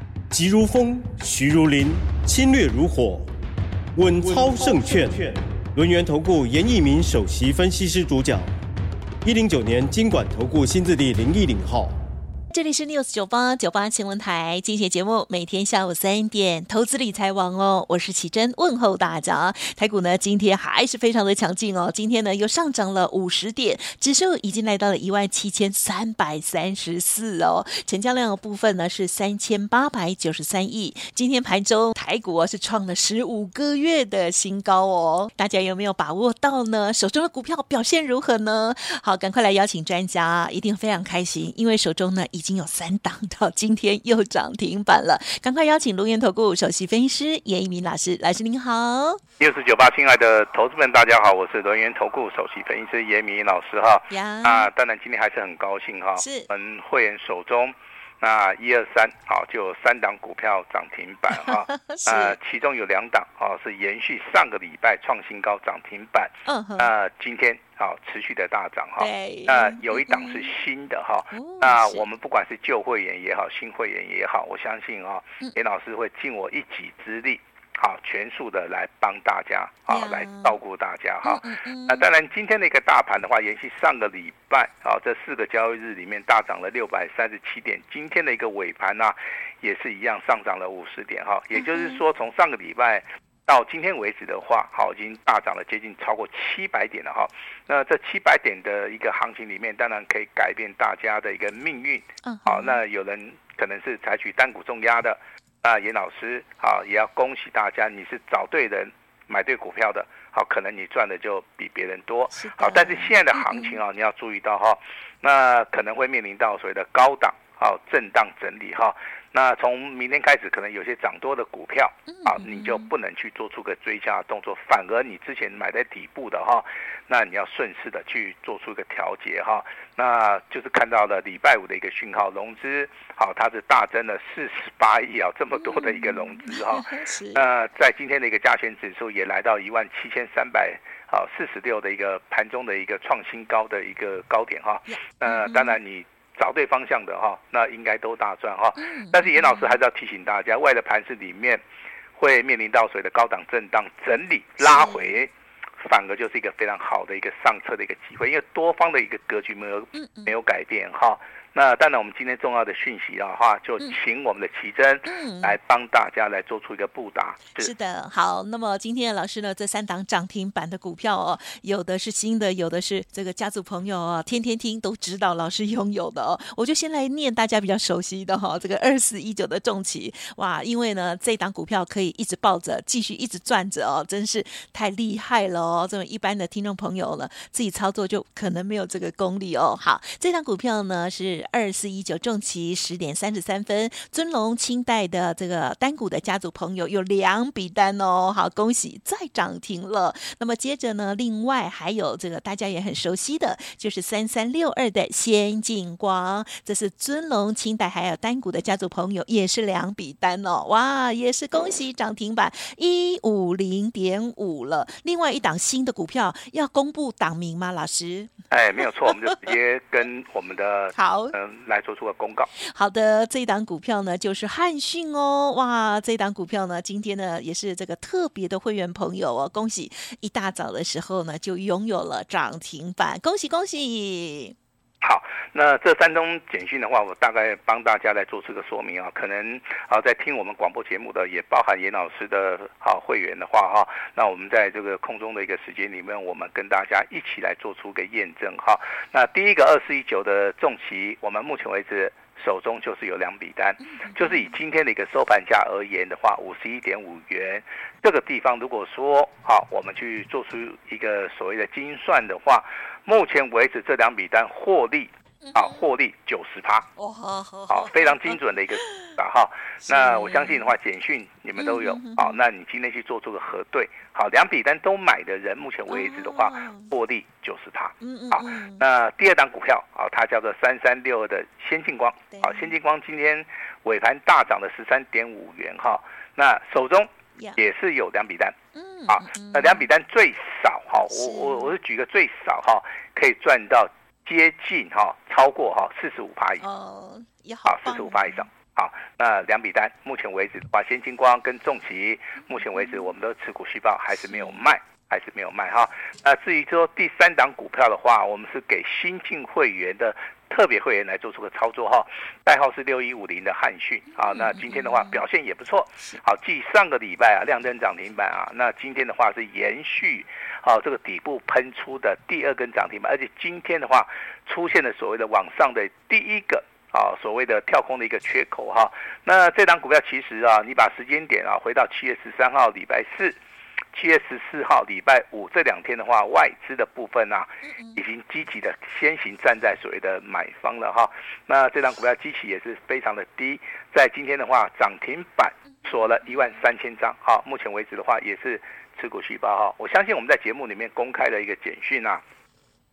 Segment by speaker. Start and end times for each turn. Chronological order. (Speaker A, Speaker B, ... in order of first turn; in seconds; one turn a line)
Speaker A: 0.3-3.3
Speaker A: 4.0-8.5
Speaker A: 9.2-12.0
Speaker B: 12.5-49.2
Speaker C: 49.4-151.6
Speaker B: 54.1-54.7
Speaker B: 56.2-56.5
Speaker B: 61.3-62.4
Speaker B: 66.5-66.9
Speaker B: 69.0-70.5
Speaker B: 71.3-72.0
Speaker B: 79.9-80.6
Speaker B: 81.2-82.1
Speaker B: 91.5-92.0
Speaker B: 102.2-102.8
Speaker B: 112.3-113.8
Speaker B: 122.1-122.9
Speaker B: 135.5-137.4
Speaker B: 144.9-145.8
Speaker B: 148.8-149.8
Speaker C: 152.2-167.7
Speaker B: 154.6-155.2
Speaker B: 159.9-160.3
Speaker B: 165.1-165.6
Speaker B: 167.6-218.3
Speaker C: 218.5-222.5
Speaker B: 219.0-219.4
Speaker B: 220.9-221.3
Speaker B: 222.6-234.6
Speaker C: 235.0-266.9
Speaker B: 253.8-254.5
Speaker B: 265.4-265.9
Speaker B: 267.0-269.2
Speaker C: 267.7-288.6
Speaker B: 269.9-270.7
Speaker B: 271.6-272.4
Speaker B: 275.9-276.9
Speaker B: 278.0-278.9
Speaker B: 282.3-282.8
Speaker B: 288.7-289.9
Speaker C: 289.1-296.7
Speaker B: 291.1-291.8
Speaker B: 296.6-298.5
Speaker C: 297.7-333.4
Speaker B: 304.3-304.6
Speaker B: 314.2-315.2
Speaker C: 333.9-352.2
Speaker B: 337.6-338.0
Speaker B: 345.8-346.6